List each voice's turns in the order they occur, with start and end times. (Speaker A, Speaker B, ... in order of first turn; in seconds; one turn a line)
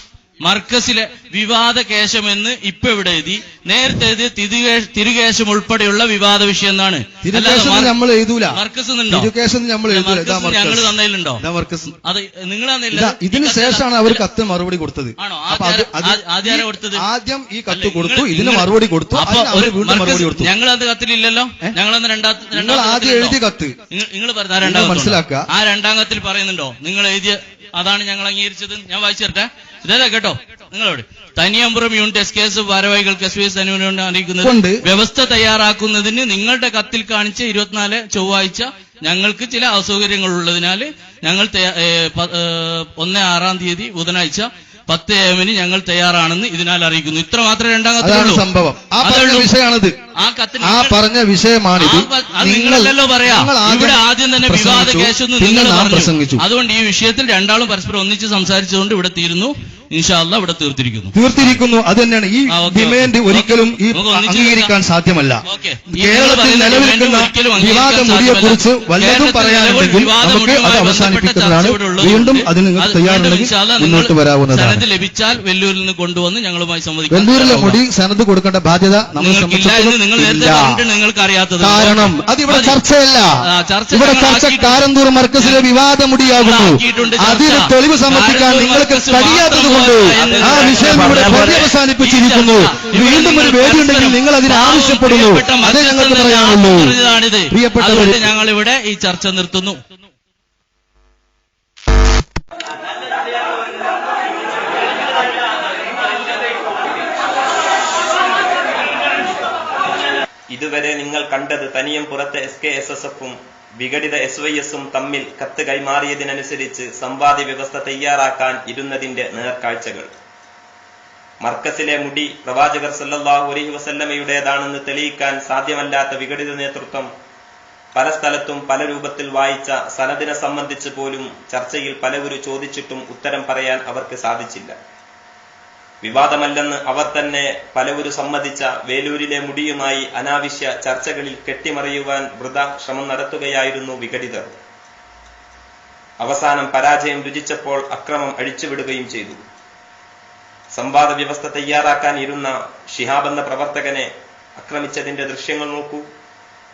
Speaker A: 0.4-8.0
Speaker B: 7.2-11.9
Speaker A: 8.5-9.3
Speaker A: 9.9-11.4
Speaker A: 12.0-14.2
Speaker B: 12.9-20.5
Speaker A: 15.2-17.0
Speaker A: 17.7-23.4
Speaker B: 22.5-23.8
Speaker A: 23.9-48.4
Speaker B: 24.6-25.5
Speaker B: 34.4-34.8
Speaker B: 48.0-50.0
Speaker A: 49.0-49.5
Speaker A: 50.1-51.0
Speaker B: 50.6-56.4
Speaker A: 51.8-61.1
Speaker B: 61.1-65.4
Speaker A: 62.5-64.7
Speaker A: 65.5-77.8
Speaker B: 65.9-74.8
Speaker B: 77.1-80.8
Speaker A: 79.2-82.8
Speaker B: 81.6-83.3
Speaker A: 83.4-84.8
Speaker B: 83.9-97.0
Speaker A: 85.4-85.6
Speaker A: 86.4-99.8
Speaker C: 90.2-91.6
Speaker B: 97.5-98.3
Speaker C: 110.5-120.1
Speaker C: 121.4-127.1
Speaker C: 127.9-134.8
Speaker C: 136.0-144.6
Speaker C: 146.2-149.4
Speaker C: 150.7-156.1